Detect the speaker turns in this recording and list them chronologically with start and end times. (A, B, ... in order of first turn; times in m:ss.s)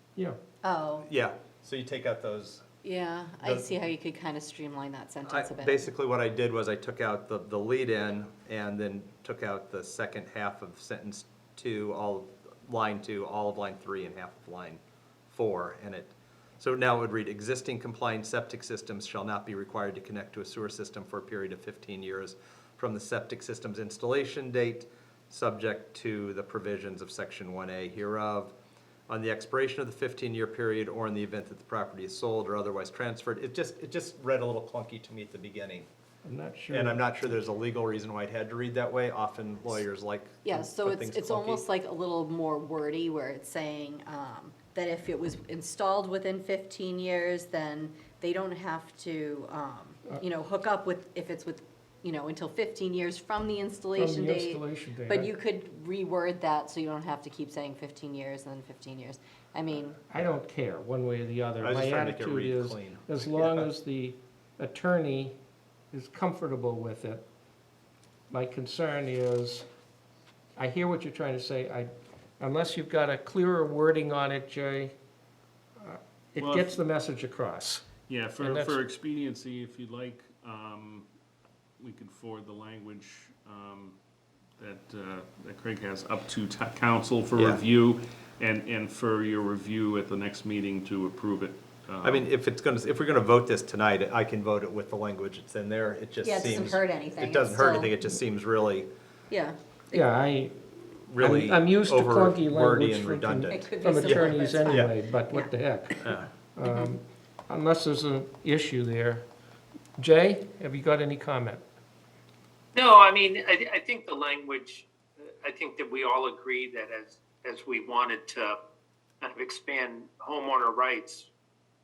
0:00.6-0:01.0 A
0:01.0-0:02.6 B
0:02.8-0:05.9 A
0:03.4-0:03.8 B
0:05.2-0:28.5 B
0:29.1-0:35.9 B
0:36.2-0:37.4 C
0:36.7-0:41.6 B
0:40.4-1:00.0 A
0:53.9-0:55.3 C
1:00.1-1:05.4 C
1:00.1-1:00.4 B
1:01.6-1:03.7 B
1:05.9-1:07.2 C
1:08.3-1:09.6 C
1:10.6-1:14.9 C
1:15.8-1:18.8 C
1:16.4-1:16.8 D
1:18.0-1:21.1 D
1:21.8-1:24.0 D
1:24.6-1:32.3 D
1:27.3-1:27.6 B
1:32.0-1:38.9 B
1:36.2-1:37.9 A
1:39.3-1:40.0 A
1:39.9-1:49.2 C
1:41.1-1:44.9 B
1:43.5-1:45.5 A
1:46.7-1:46.9 A
1:50.0-1:51.6 C
1:52.7-1:58.6 E
1:59.2-2:01.3 E